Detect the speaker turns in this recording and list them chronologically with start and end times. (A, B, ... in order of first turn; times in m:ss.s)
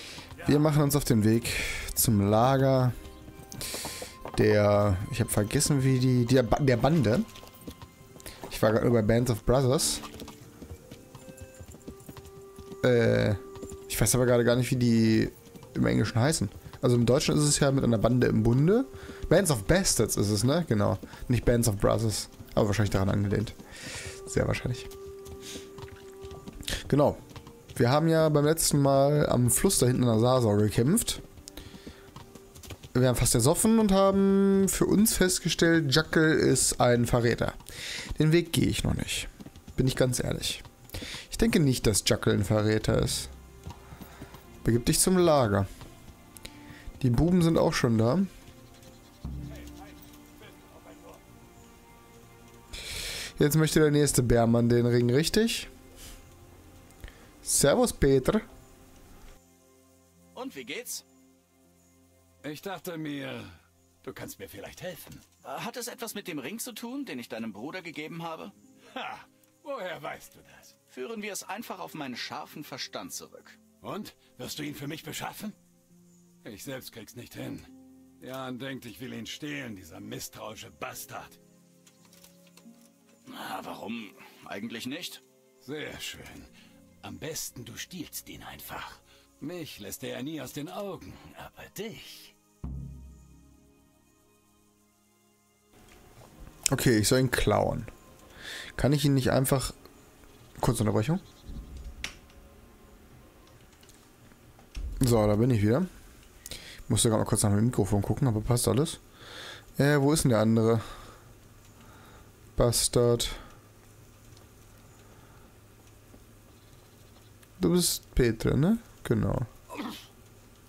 0:00.4-0:02.9 A
0:04.3-0:07.3 A
0:08.5-0:10.0 A
0:12.8-0:23.6 A
0:24.2-0:24.9 A
0:26.7-0:27.2 A
0:27.7-0:31.2 A
0:32.9-0:37.6 A
0:38.1-0:40.6 A
0:41.3-0:43.3 A
0:44.6-0:45.7 A
0:47.0-0:48.3 A
0:50.5-0:51.2 B
0:53.4-0:55.7 A
0:57.4-0:58.4 A
1:00.3-1:01.0 C
1:02.4-1:05.2 B
1:05.4-1:08.5 C
1:08.9-1:10.7 B
1:10.9-1:13.6 C
1:13.8-1:15.6 B
1:16.4-1:17.7 B
1:18.2-1:21.4 B
1:23.2-1:25.2 C
1:25.6-1:26.5 B
1:27.0-1:32.3 B
1:36.7-1:37.9 A
1:38.8-1:39.7 A
1:40.6-1:41.2 A
1:45.0-1:45.9 A
1:46.9-1:49.0 A
1:49.8-1:50.8 A
1:52.6-1:53.4 A
1:57.6-1:59.5 A